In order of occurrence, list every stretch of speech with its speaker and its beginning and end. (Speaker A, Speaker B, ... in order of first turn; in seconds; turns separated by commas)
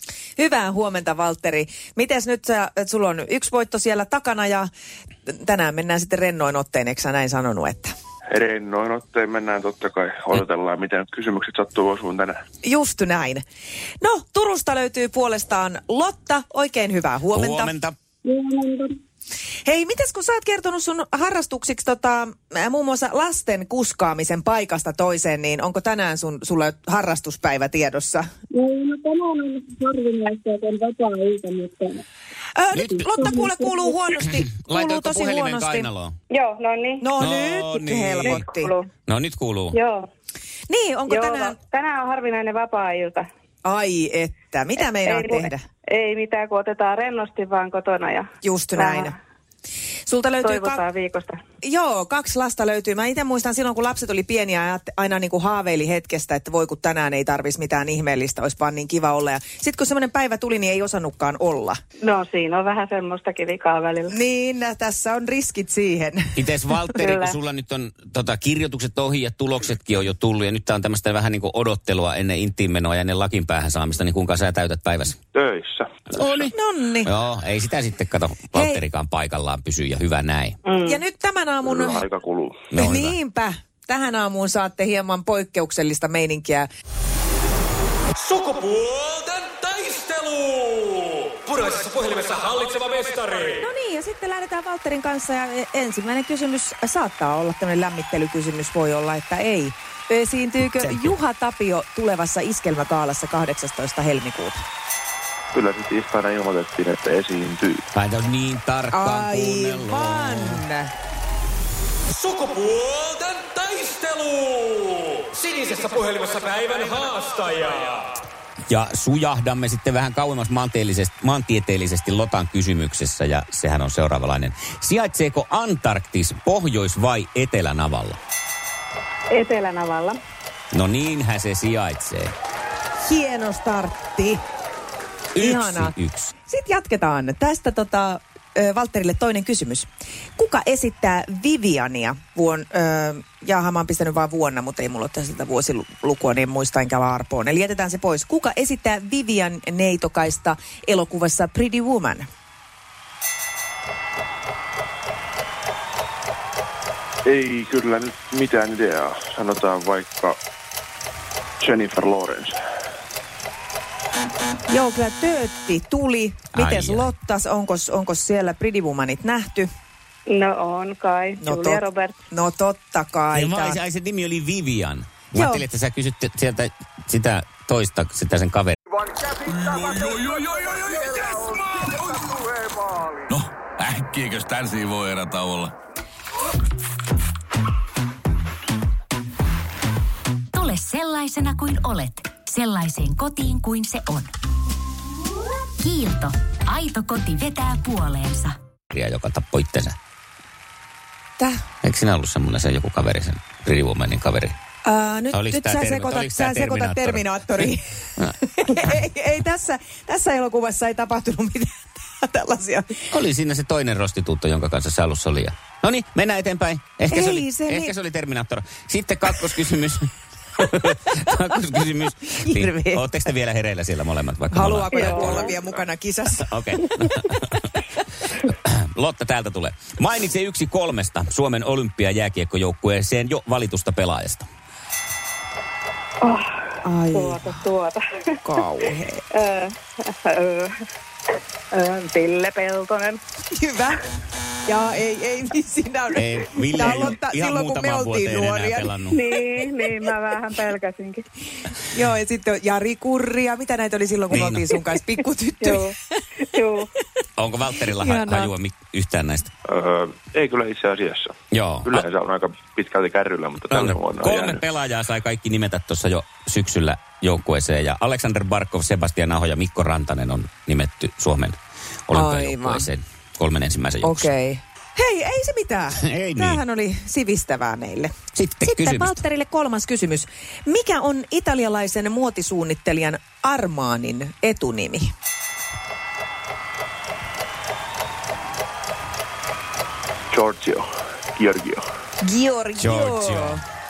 Speaker A: 0.4-4.7, Speaker A: 5.3-7.9, Speaker B: 8.3-12.4, Speaker A: 12.6-13.4, Speaker A: 14.0-17.7, Speaker C: 17.3-17.9, Speaker D: 18.4-18.7, Speaker A: 19.6-28.2, Speaker E: 28.7-31.9, Speaker A: 32.5-35.9, Speaker C: 32.7-33.1, Speaker C: 34.3-36.1, Speaker E: 36.3-37.0, Speaker A: 37.0-38.7, Speaker C: 37.2-38.5, Speaker C: 39.1-39.8, Speaker E: 39.7-40.0, Speaker A: 40.7-41.6, Speaker E: 41.2-43.2, Speaker A: 43.6-45.6, Speaker E: 45.9-48.3, Speaker A: 48.4-49.1, Speaker A: 50.1-50.8, Speaker E: 50.5-51.4, Speaker A: 51.6-61.8, Speaker E: 62.0-64.1, Speaker A: 64.1-66.4, Speaker C: 66.3-75.2, Speaker B: 75.3-75.9, Speaker C: 76.1-76.5, Speaker A: 76.4-77.1, Speaker C: 77.0-80.6, Speaker A: 78.5-78.8, Speaker A: 80.8-82.0, Speaker B: 81.6-82.6, Speaker C: 82.7-83.2, Speaker A: 82.7-86.7, Speaker D: 88.2-93.6, Speaker A: 93.5-104.6, Speaker B: 105.5-107.8, Speaker C: 107.9-110.6, Speaker A: 108.9-110.9, Speaker D: 112.1-118.2, Speaker C: 118.7-128.2, Speaker E: 129.3-130.2, Speaker C: 130.7-132.3, Speaker A: 133.0-134.4, Speaker C: 135.3-136.3, Speaker A: 135.4-135.9, Speaker A: 136.5-152.2, Speaker B: 157.2-160.4, Speaker B: 161.6-162.5, Speaker A: 164.7-169.7, Speaker C: 166.5-167.1, Speaker E: 170.3-172.1, Speaker A: 171.4-173.8, Speaker C: 173.3-178.8, Speaker A: 175.3-175.7, Speaker F: 179.5-182.2, Speaker F: 183.3-185.7, Speaker G: 190.5-194.3, Speaker G: 195.8-198.6, Speaker C: 198.9-199.9, Speaker C: 201.8-204.6, Speaker A: 204.8-207.8, Speaker C: 205.3-208.3, Speaker A: 208.4-213.1, Speaker C: 213.1-225.5, Speaker A: 217.1-217.9, Speaker A: 222.4-223.1, Speaker A: 224.5-226.5, Speaker D: 225.1-225.4, Speaker C: 226.4-227.8, Speaker C: 228.4-234.5, Speaker E: 236.2-236.5, Speaker A: 236.8-237.5, Speaker E: 237.2-238.0, Speaker A: 238.4-239.2, Speaker E: 239.3-240.7, Speaker E: 241.7-243.2, Speaker A: 243.5-244.0, Speaker A: 244.7-250.1, Speaker C: 246.2-249.2, Speaker E: 249.3-251.2, Speaker D: 249.9-250.3, Speaker A: 251.9-255.9, Speaker C: 254.3-254.7, Speaker E: 256.5-256.9, Speaker C: 257.4-259.5, Speaker A: 257.9-258.5, Speaker B: 259.7-261.3, Speaker C: 261.5-262.1, Speaker B: 261.8-264.6, Speaker C: 263.7-274.3, Speaker A: 272.1-272.9, Speaker A: 274.0-278.1, Speaker C: 276.0-276.6, Speaker C: 278.3-279.2, Speaker A: 278.6-285.1, Speaker B: 290.3-291.8, Speaker A: 292.2-293.6, Speaker C: 292.8-293.6